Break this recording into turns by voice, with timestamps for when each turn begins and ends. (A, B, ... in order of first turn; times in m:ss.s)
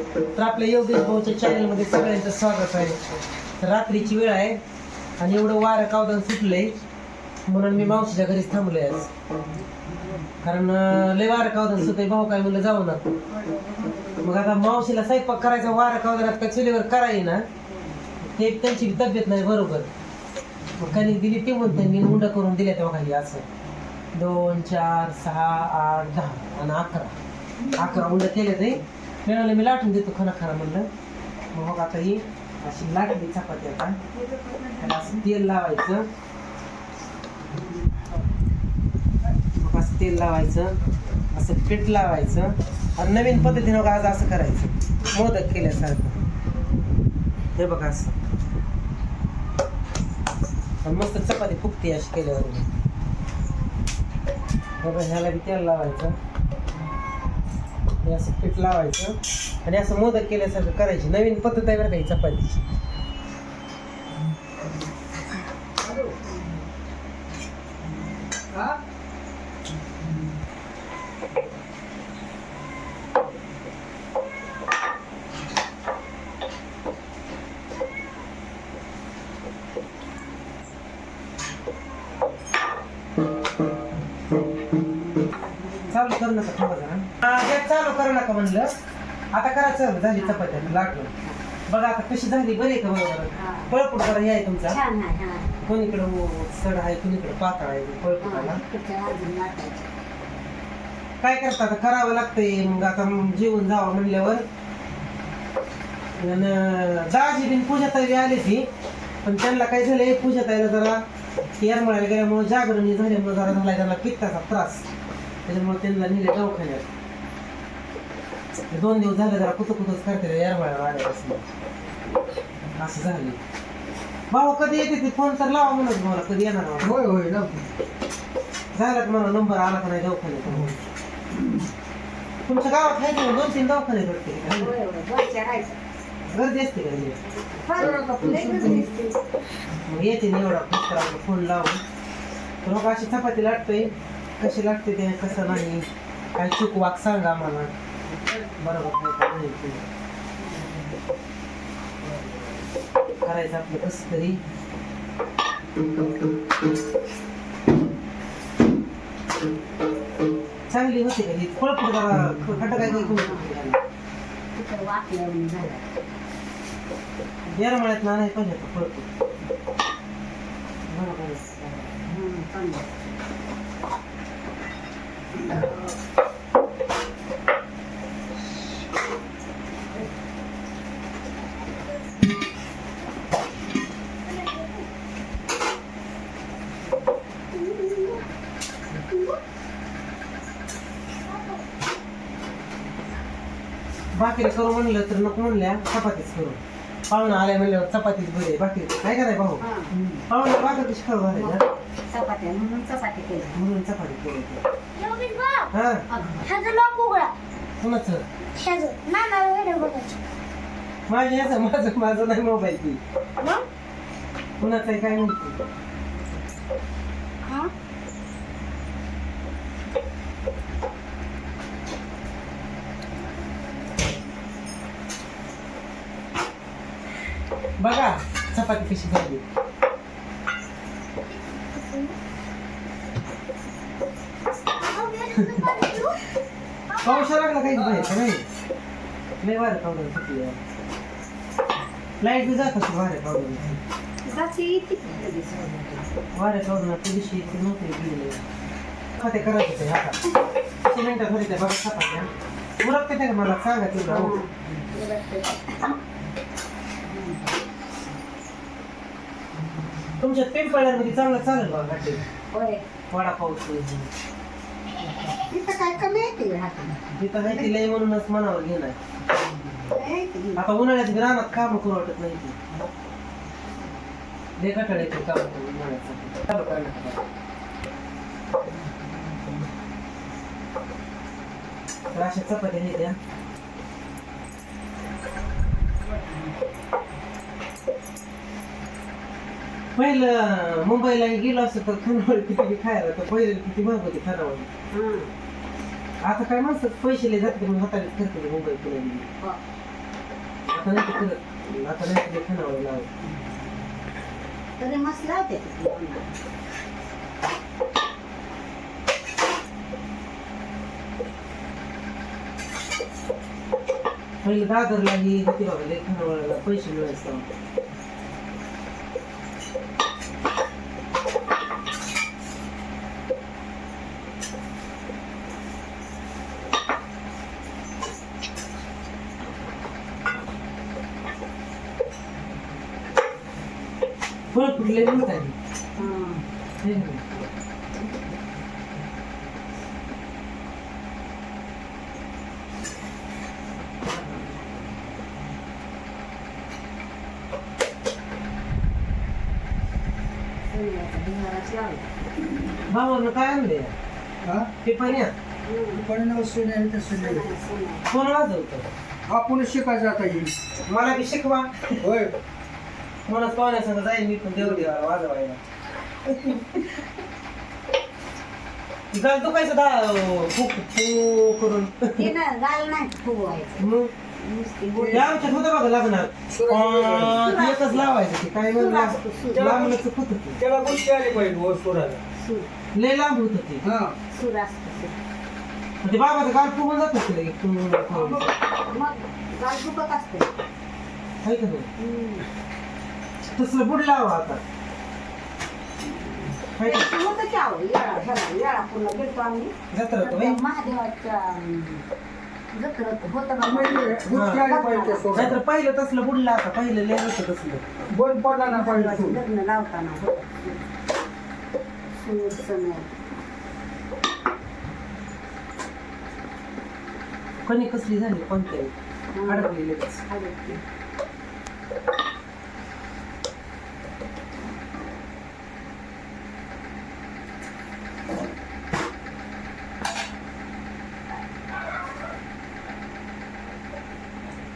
0:00.4-0:03.0 A
0:03.6-0:04.6 A
0:05.2-0:06.8 A
0:07.5-0:09.1 A
0:10.4-0:13.1 A
0:13.3-0:14.6 B
0:14.2-0:17.5 A
0:17.6-0:18.2 B
0:18.3-0:19.9 A
0:20.8-0:23.4 A
0:24.1-0:27.1 A
0:27.6-0:28.2 B
0:27.7-0:30.9 A
0:31.5-0:34.0 A
0:34.1-0:35.0 C
0:34.8-0:36.1 A
0:37.5-0:38.2 B
0:39.6-0:40.8 A
0:41.3-0:46.2 A
0:47.6-0:48.2 A
0:50.8-0:52.7 A
0:54.8-0:56.2 A
0:58.0-1:02.6 A
1:05.8-1:06.2 C
1:06.3-1:06.6 B
1:08.5-1:08.8 C
1:25.2-1:26.0 B
1:25.9-1:28.7 A
1:29.3-1:31.1 A
1:30.1-1:31.4 B
1:31.7-1:34.8 A
1:33.3-1:33.7 B
1:34.7-1:35.5 B
1:35.6-1:38.6 A
1:38.2-1:39.9 B
1:41.2-1:44.4 A
1:46.2-1:48.7 A
1:49.2-1:51.0 A
1:51.6-1:54.8 A
1:55.5-1:56.9 A
1:58.7-2:01.5 A
2:02.8-2:03.4 A
2:04.3-2:07.0 A
2:06.8-2:07.7 C
2:08.7-2:10.8 A
2:12.4-2:14.8 A
2:14.6-2:15.8 B
2:16.3-2:17.2 A
2:17.6-2:19.2 B
2:17.8-2:19.0 C
2:19.8-2:21.8 A
2:22.6-2:27.7 A
2:28.5-2:29.8 A
2:33.2-2:34.4 A
2:40.7-2:43.8 A
2:42.8-2:43.5 B
2:44.6-2:45.8 B
2:47.5-2:49.1 A
2:50.9-2:51.9 A
2:52.0-2:52.9 B
2:55.4-2:55.9 B
3:07.6-3:08.2 D
3:14.1-3:19.6 A
3:19.6-3:19.9 B
3:20.3-3:21.6 A
3:21.3-3:23.6 B
3:23.5-3:24.6 A
3:25.0-3:25.7 D
3:25.7-3:26.1 A
3:26.1-3:26.4 B
3:26.4-3:27.3 D
3:27.8-3:28.2 A
3:28.5-3:30.2 D
3:31.1-3:33.0 A
3:34.6-3:35.6 A
3:47.8-3:49.4 A
3:51.3-3:52.2 D
3:54.8-3:56.2 D
3:56.9-3:57.3 D
3:57.0-3:58.5 A
3:59.4-4:00.6 A
4:02.2-4:03.8 A
4:04.2-4:06.0 B
4:06.3-4:08.4 A
4:09.2-4:10.2 A
4:10.8-4:12.3 A
4:12.8-4:14.4 A
4:14.0-4:16.0 B
4:17.1-4:17.4 B
4:20.2-4:22.2 A
4:22.5-4:22.8 B
4:23.1-4:24.1 A
4:25.5-4:27.0 B
4:27.1-4:29.0 A
4:29.8-4:30.6 B
4:30.6-4:32.6 A
4:34.6-4:37.2 A
4:42.1-4:43.2 A
4:50.0-4:54.7 A
4:54.9-4:55.3 B
4:56.2-4:59.3 A
5:00.6-5:03.1 A
5:04.8-5:06.3 B
5:14.4-5:17.5 A
5:34.5-5:35.6 A
5:36.0-5:36.4 B
5:36.8-5:37.2 A
5:50.7-5:52.1 B
5:52.8-5:53.9 A
5:54.4-5:54.7 C
5:54.8-5:55.3 A
5:55.7-5:56.1 B
5:55.9-5:57.5 C
5:57.1-5:58.1 B
5:58.1-5:58.9 A
5:59.3-6:00.6 C
6:00.9-6:02.0 A
6:02.0-6:02.3 C
6:03.3-6:05.6 A
6:06.3-6:06.9 A
6:09.1-6:12.3 A
6:12.2-6:13.9 B
6:13.8-6:14.1 A
6:14.4-6:15.5 B
6:15.0-6:15.3 C
6:15.1-6:20.6 A
6:16.5-6:17.5 C
6:17.4-6:18.1 B
6:18.7-6:19.7 B
6:19.5-6:20.0 C
6:20.6-6:22.2 C
6:22.4-6:22.7 B
6:22.9-6:23.8 A
6:23.8-6:24.2 C
6:24.3-6:25.2 B
6:26.0-6:28.6 A
6:28.1-6:28.5 C
6:28.8-6:30.6 B
6:31.4-6:31.9 A
6:32.0-6:32.5 B
6:33.5-6:34.6 A
6:36.6-6:42.0 B
6:36.8-6:37.1 A
6:39.9-6:40.6 A
6:42.7-6:45.4 B
6:43.6-6:45.6 C
6:44.3-6:44.7 A
6:45.3-6:47.8 A
6:48.1-6:49.4 C
6:48.7-6:50.8 B
6:52.2-6:53.1 B
6:57.6-6:58.9 A
6:59.3-6:59.8 B
6:59.4-7:00.2 A
7:00.3-7:00.8 B